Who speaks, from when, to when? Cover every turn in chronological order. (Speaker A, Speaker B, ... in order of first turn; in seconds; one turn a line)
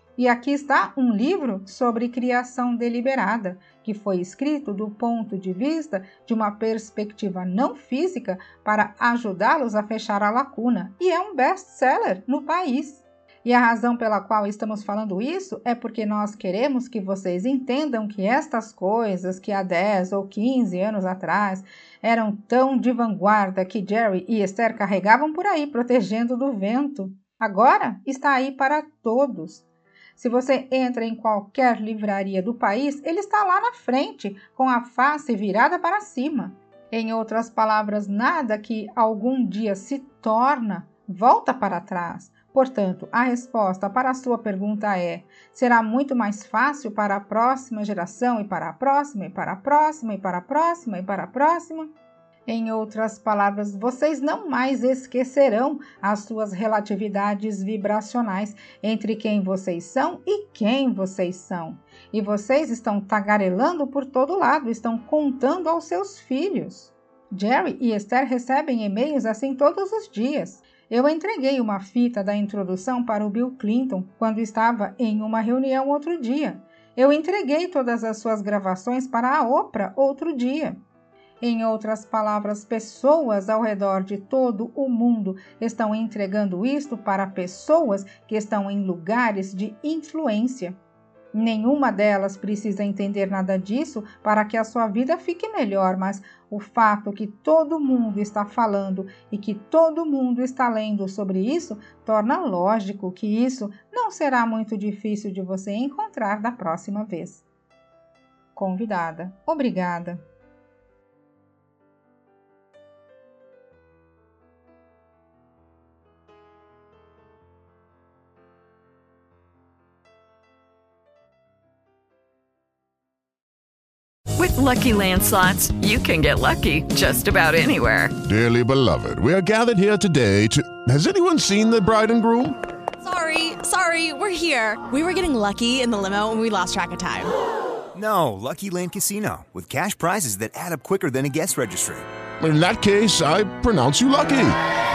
Speaker A: 0.2-29.6
Speaker A: 30.2-51.9
Speaker A: 52.5-80.8
Speaker A: 81.4-90.8
Speaker A: 91.3-107.4
Speaker A: 108.5-110.2
Speaker B: 124.4-128.2
Speaker C: 128.2-132.6
Speaker D: 133.0-137.3
Speaker E: 137.9-142.1
Speaker C: 142.4-144.6